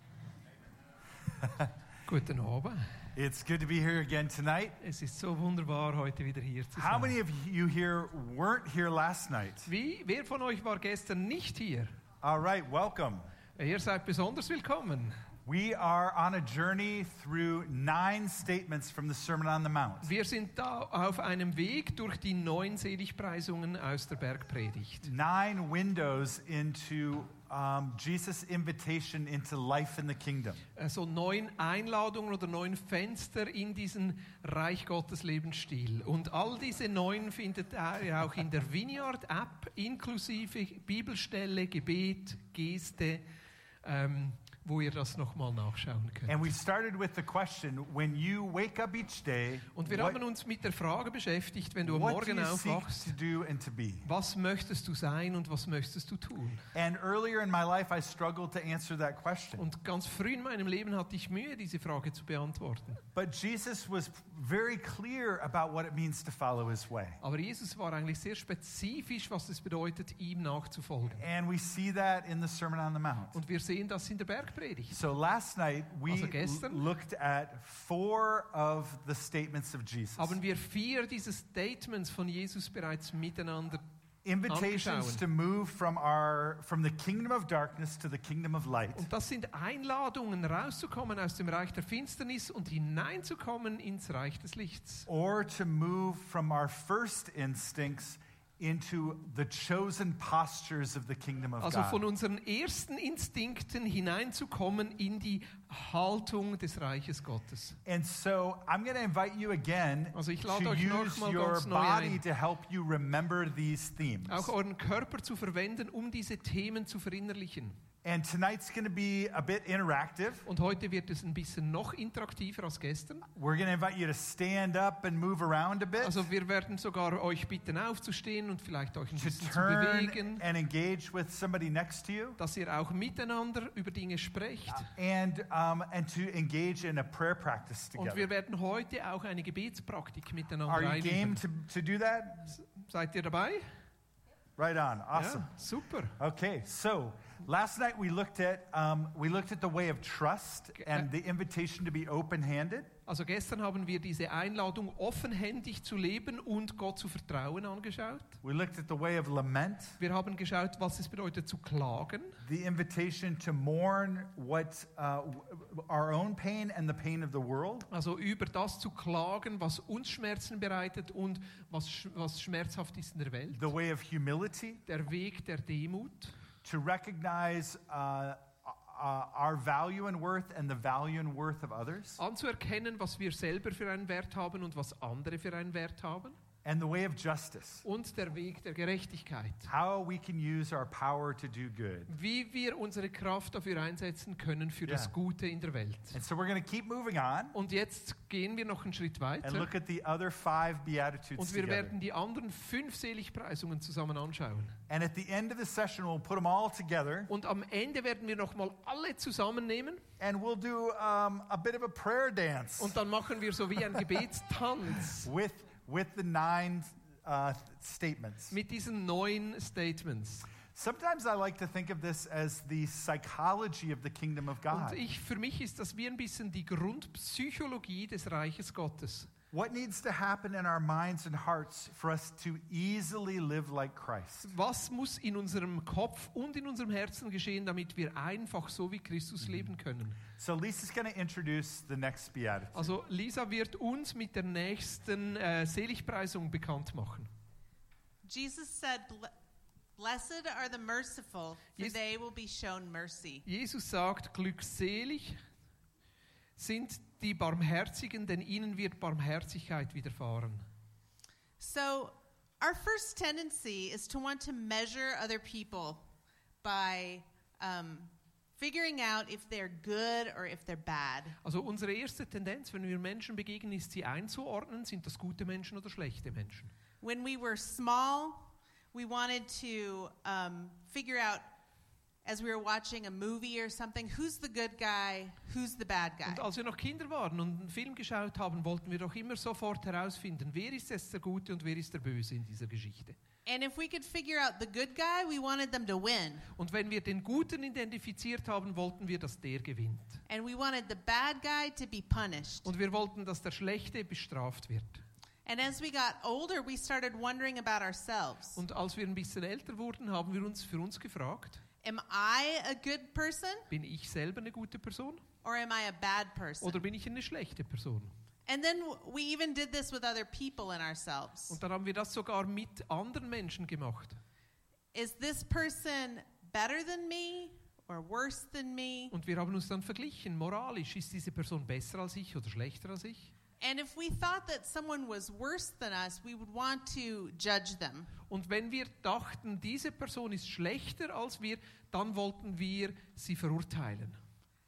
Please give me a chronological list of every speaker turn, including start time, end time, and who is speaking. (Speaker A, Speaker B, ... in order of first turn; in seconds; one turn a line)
Speaker A: 1.4-1.7
Speaker B: 2.1-2.9
Speaker A: 3.2-4.8
Speaker B: 4.8-7.2
Speaker A: 6.7-9.7
Speaker B: 9.7-12.0
Speaker A: 12.2-13.3
Speaker B: 13.6-15.2
Speaker A: 15.4-20.1
Speaker B: 20.0-25.1
Speaker A: 25.0-30.6
Speaker B: 30.8-43.2
Speaker B: 43.8-46.5
Speaker A: 46.3-50.2
Speaker B: 49.7-53.2
Speaker A: 51.8-54.1
Speaker B: 54.0-56.7
Speaker A: 56.8-59.7
Speaker B: 59.6-63.0
Speaker A: 63.1-67.2
Speaker B: 67.2-71.2
Speaker A: 71.2-73.4
Speaker B: 73.3-75.0
Speaker A: 74.9-80.4
Speaker B: 76.1-76.8
Speaker B: 80.2-83.8
Speaker A: 84.2-89.1
Speaker B: 84.5-85.2
Speaker B: 89.0-95.1
Speaker A: 95.1-102.0
Speaker B: 101.6-107.8
Speaker A: 107.9-114.5
Speaker B: 110.2-112.2
Speaker B: 114.3-117.8
Speaker A: 118.0-120.5
Speaker B: 120.5-123.3
Speaker A: 123.3-126.3
Speaker B: 126.0-130.4
Speaker A: 129.2-132.4
Speaker B: 132.4-134.9
Speaker A: 134.7-138.3
Speaker B: 137.9-141.4
Speaker A: 140.7-142.5
Speaker B: 142.5-143.7
Speaker A: 144.6-145.5
Speaker B: 145.2-146.2
Speaker A: 146.2-153.0
Speaker B: 150.8-151.1
Speaker B: 153.1-158.4
Speaker A: 158.4-160.0
Speaker B: 160.0-162.4
Speaker A: 162.4-167.9
Speaker B: 167.9-173.7
Speaker A: 173.5-174.8
Speaker B: 174.9-176.4
Speaker A: 176.6-182.2
Speaker B: 182.2-186.4
Speaker A: 186.6-187.8
Speaker B: 187.8-189.7
Speaker A: 189.7-192.1
Speaker B: 192.1-196.2
Speaker A: 194.9-195.1
Speaker A: 196.1-197.6
Speaker B: 197.5-199.7
Speaker A: 199.4-202.0
Speaker B: 201.4-204.8
Speaker A: 204.9-207.3
Speaker B: 207.3-210.0
Speaker A: 210.2-213.0
Speaker B: 212.8-215.3
Speaker A: 215.1-218.6
Speaker B: 218.5-220.5
Speaker A: 220.7-225.0
Speaker B: 224.7-229.3
Speaker A: 229.5-234.5
Speaker B: 234.5-240.2
Speaker A: 240.3-242.9
Speaker B: 242.8-247.3
Speaker C: 248.2-249.3
Speaker C: 250.0-253.4
Speaker B: 253.5-255.4
Speaker B: 256.6-260.7
Speaker C: 261.6-266.1
Speaker C: 266.6-271.4
Speaker B: 271.4-276.7
Speaker C: 277.0-281.5
Speaker C: 282.2-286.4
Speaker B: 286.3-293.2
Speaker C: 293.5-296.5
Speaker B: 296.6-300.2
Speaker C: 300.3-302.7
Speaker B: 302.6-305.0
Speaker C: 305.5-308.6
Speaker B: 308.6-311.6
Speaker C: 311.8-313.7
Speaker B: 313.7-315.2
Speaker C: 315.4-316.8
Speaker B: 316.6-318.1
Speaker C: 318.5-321.6
Speaker B: 321.5-324.2
Speaker C: 324.9-329.1
Speaker B: 329.1-333.3
Speaker C: 333.6-338.1
Speaker B: 338.3-344.2